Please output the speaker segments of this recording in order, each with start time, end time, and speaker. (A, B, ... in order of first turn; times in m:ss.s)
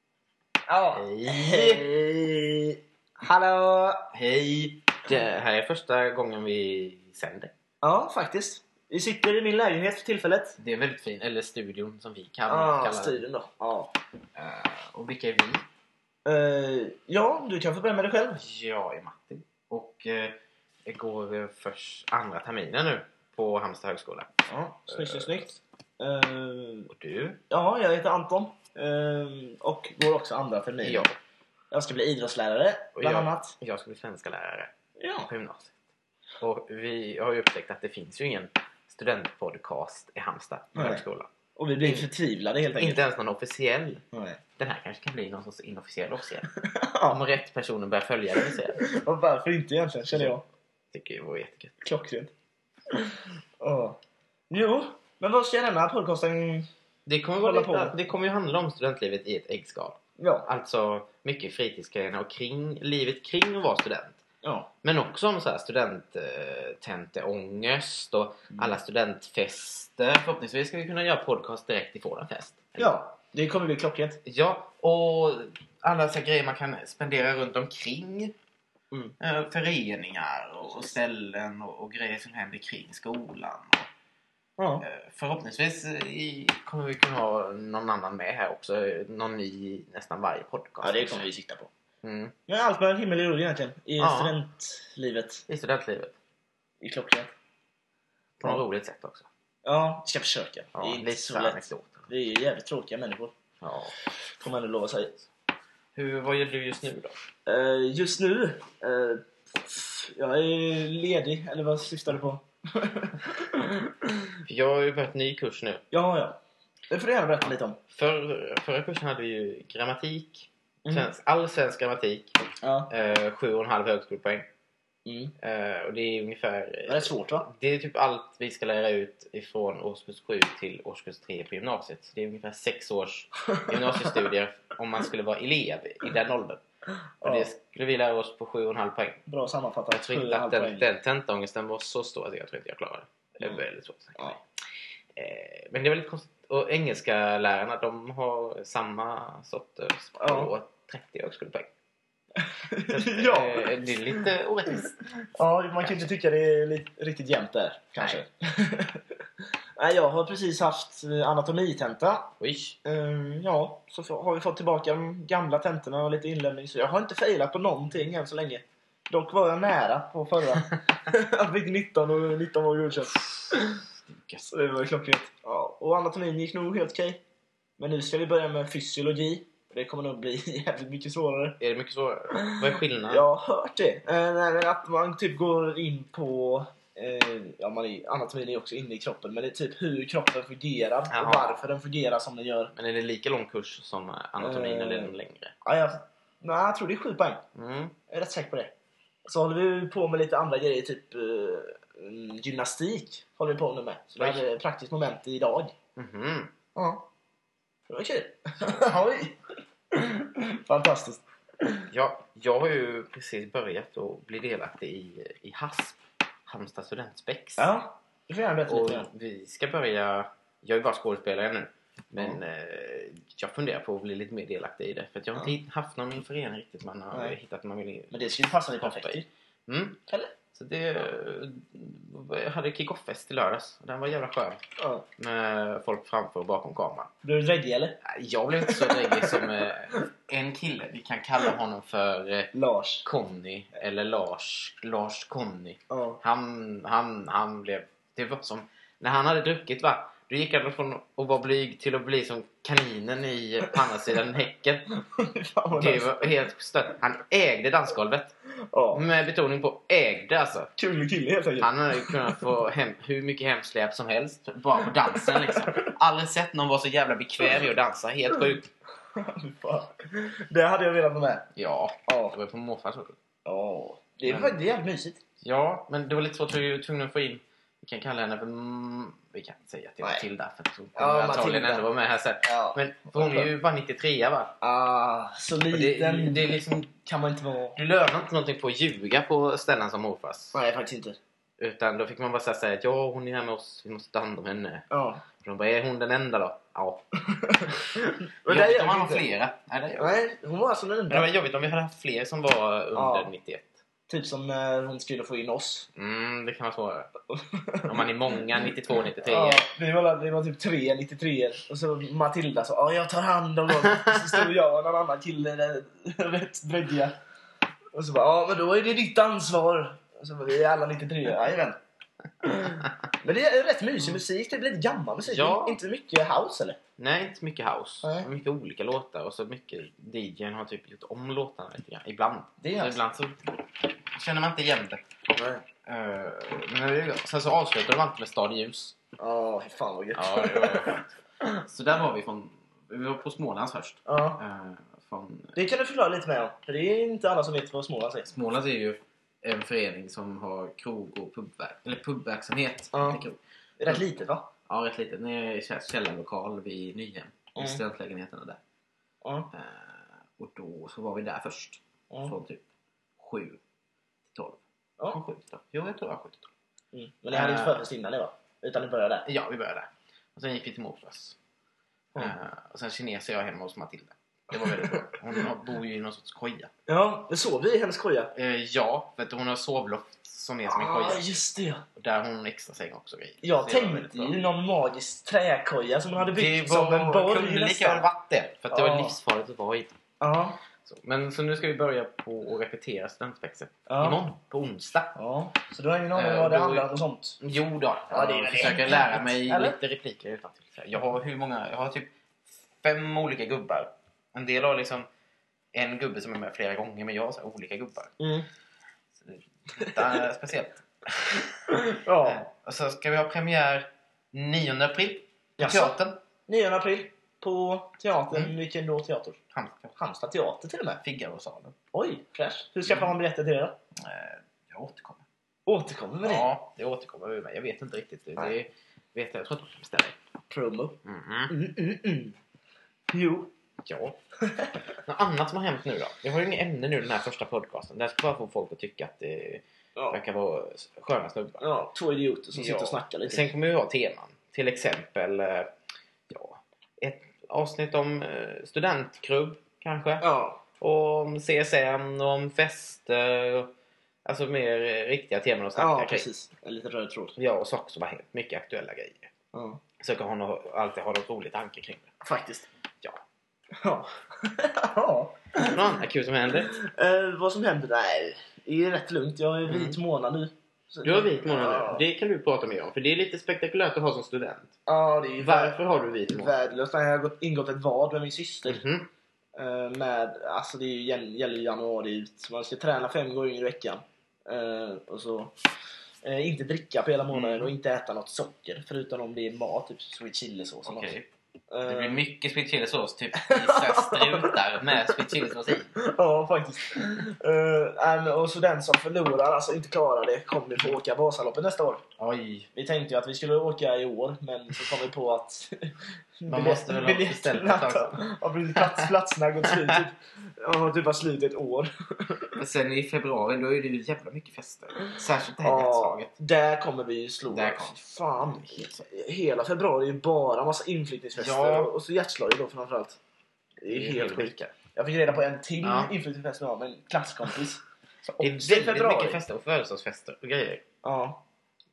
0:00.7-0:04.1 A
0:00.9-0:01.9 B
0:04.1-0:07.5 B
0:07.8-0:10.6 A
0:10.6-0:13.2 B
0:12.5-0:13.9 A
0:14.4-0:15.6 B
0:16.2-0:18.4 A
0:18.4-0:25.4 B
0:24.5-0:26.9 A
0:26.9-0:27.4 B
0:27.5-0:31.1 A
0:30.8-0:31.2 B
0:31.7-0:33.6 A
0:33.0-0:35.7 B
0:35.0-0:35.3 A
0:36.4-0:42.1 B
0:40.8-0:41.0 A
0:41.6-0:43.0 A
0:42.8-0:44.0 B
0:44.1-0:44.4 A
0:44.6-0:46.5 B
0:46.7-0:47.2 A
0:47.1-0:48.8 B
0:48.8-0:50.4 A
0:50.1-0:50.4 B
0:50.9-0:51.7 B
0:51.8-0:52.3 A
0:52.9-0:54.0 A
0:54.5-0:56.7 A
0:57.1-1:04.2 B
0:57.4-0:58.0 A
1:00.2-1:00.5 A
1:04.4-1:04.7 A
1:04.8-1:13.0 B
1:08.5-1:08.8 A
1:12.8-1:14.2 A
1:14.2-1:18.4 B
1:19.2-1:23.9 B
1:24.6-1:24.8 A
1:24.8-1:31.3 B
1:30.8-1:31.7 A
1:32.0-1:32.3 B
1:32.5-1:35.4 A
1:34.0-1:34.4 B
1:35.5-1:36.2 B
1:36.8-1:37.3 A
1:38.4-1:39.3 B
1:39.6-1:43.3 A
1:40.8-1:42.1 B
1:43.6-1:43.9 B
1:44.4-1:45.2 A
1:46.0-1:47.2 B
1:47.5-1:53.9 A
1:54.5-1:55.8 B
1:55.9-1:56.4 A
1:56.9-1:57.8 A
1:57.9-2:02.4 B
2:00.8-2:01.1 A
2:02.6-2:02.9 A
2:02.9-2:04.5 B
2:05.1-2:05.3 A
2:05.4-2:16.6 B
2:06.9-2:07.5 A
2:17.2-2:17.5 A
2:17.2-2:19.2 B
2:19.3-2:20.9 A
2:19.9-2:24.4 B
2:25.2-2:31.7 B
2:30.2-2:30.5 A
2:32.4-2:34.2 A
2:32.9-2:34.9 B
2:34.9-2:39.0 A
2:39.8-2:42.3 A
2:42.4-2:42.8 B
2:42.8-2:53.6 A
2:53.4-2:54.5 B
2:54.5-2:57.2 A
2:57.8-3:01.6 A
3:01.6-3:03.3 B
3:02.4-3:12.7 A
3:11.1-3:11.6 B
3:12.8-3:15.5 B
3:14.4-3:15.1 A
3:15.6-3:17.4 A
3:17.6-3:17.9 B
3:18.1-3:18.7 A
3:19.3-3:25.7 A
3:24.2-3:24.4 B
3:26.0-3:26.5 B
3:26.8-3:27.1 A
3:27.9-3:29.4 A
3:29.9-3:31.2 A
3:31.9-3:37.7 B
3:37.6-3:39.1 A
3:38.7-3:50.0 B
3:48.1-3:49.3 A
3:50.1-3:50.4 A
3:50.5-3:54.6 B
3:54.8-3:55.0 A
3:55.2-3:57.1 B
3:57.2-3:58.0 A
3:58.0-4:02.5 B
3:58.7-3:59.4 A
4:02.5-4:03.1 A
4:03.0-4:14.9 B
4:05.9-4:06.2 A
4:15.0-4:16.4 A
4:15.7-4:18.3 B
4:18.7-4:19.1 A
4:18.9-4:20.7 B
4:20.8-4:22.4 A
4:21.6-4:28.7 B
4:25.1-4:25.8 A
4:29.2-4:31.5 A
4:31.6-4:33.2 B
4:32.1-4:32.4 A
4:33.4-4:35.2 A
4:34.2-4:34.6 B
4:35.4-4:44.5 B
4:41.0-4:41.9 A
4:42.4-4:43.5 A
4:44.6-4:47.8 A
4:45.7-4:46.9 B
4:47.8-4:50.6 B
4:50.5-4:51.2 A
4:51.6-4:54.8 B
4:54.9-4:55.2 A
4:55.4-4:57.0 B
4:57.3-4:59.2 A
4:58.5-5:00.2 B
5:00.0-5:01.3 A
5:01.1-5:03.7 B
5:03.0-5:03.3 A
5:04.1-5:05.9 A
5:06.0-5:07.1 B
5:07.3-5:17.2 A
5:07.8-5:09.7 B
5:13.9-5:14.3 B
5:17.9-5:21.8 A
5:22.6-5:26.8 A
5:25.3-5:25.8 B
5:27.0-5:33.6 B
5:28.0-5:28.3 A
5:32.6-5:33.0 A
5:34.1-5:35.0 B
5:35.3-5:35.6 A
5:35.9-5:39.0 B
5:39.2-5:41.0 A
5:40.1-5:45.6 B
5:44.1-5:44.4 A
5:45.6-5:48.3 A
5:48.3-5:54.1 B
5:52.9-5:53.2 A
5:53.8-5:54.5 A
5:54.7-5:58.6 B
5:57.6-5:57.8 A
5:59.2-5:59.5 A
5:59.5-6:02.6 B
6:03.2-6:03.6 B
6:04.3-6:06.5 B
6:06.9-6:09.3 A
6:07.3-6:07.8 B
6:09.3-6:11.4 B
6:12.2-6:16.7 B
6:14.6-6:15.0 A
6:16.9-6:18.3 A
6:18.3-6:21.2 B
6:20.7-6:21.8 A
6:22.0-6:24.4 B
6:23.4-6:28.1 A
6:26.2-6:29.9 B
6:28.7-6:29.2 A
6:30.2-6:30.6 A
6:30.8-6:35.2 B
6:33.9-6:34.2 A
6:35.2-6:37.4 A
6:36.1-6:36.9 B
6:37.4-6:45.1 B
6:38.1-6:39.8 A
6:45.7-6:48.1 B
6:48.2-6:48.5 A
6:49.2-6:56.2 B
6:51.9-6:52.5 A
6:55.6-6:59.4 A
6:59.5-7:00.0 B
7:00.0-7:01.0 A
7:01.0-7:01.7 B
7:01.9-7:03.8 A
7:02.8-7:03.1 B
7:04.0-7:05.2 B
7:05.7-7:06.5 A
7:06.2-7:10.2 B
7:10.5-7:12.4 A
7:11.0-7:11.5 B
7:13.1-7:13.5 A
7:13.8-7:14.2 B
7:14.4-7:14.7 A
7:15.1-7:21.7 B
7:21.6-7:23.5 A
7:22.6-7:25.7 B
7:26.3-7:30.3 B
7:30.2-7:30.6 A
7:30.8-7:33.7 B
7:34.2-7:36.3 B
7:35.8-7:37.4 A
7:37.4-7:39.3 B
7:39.5-7:39.8 A
7:40.0-7:42.1 B
7:42.2-7:42.7 A
7:43.8-7:45.8 A
7:45.6-7:46.8 B
7:46.7-7:52.0 A
7:49.7-7:50.0 B
7:51.0-7:54.7 B
7:54.9-7:58.8 A
7:55.4-7:56.5 B
7:58.6-7:59.1 B
7:59.6-8:05.6 A
8:06.2-8:11.1 A
8:07.3-8:07.7 B
8:10.8-8:11.3 B
8:11.7-8:12.2 A
8:11.8-8:15.9 B
8:13.4-8:15.2 A
8:16.0-8:22.0 A
8:22.2-8:22.7 B
8:22.8-8:25.8 A
8:26.4-8:32.6 A
8:26.5-8:28.2 B
8:28.8-8:29.1 B
8:29.7-8:30.0 B
8:32.6-8:36.3 B
8:35.6-8:43.2 A
8:37.5-8:39.0 B
8:41.4-8:41.9 B
8:43.8-8:49.4 A
8:43.9-8:44.7 B
8:45.8-8:46.1 B
8:48.4-8:50.8 B
8:51.0-8:51.4 A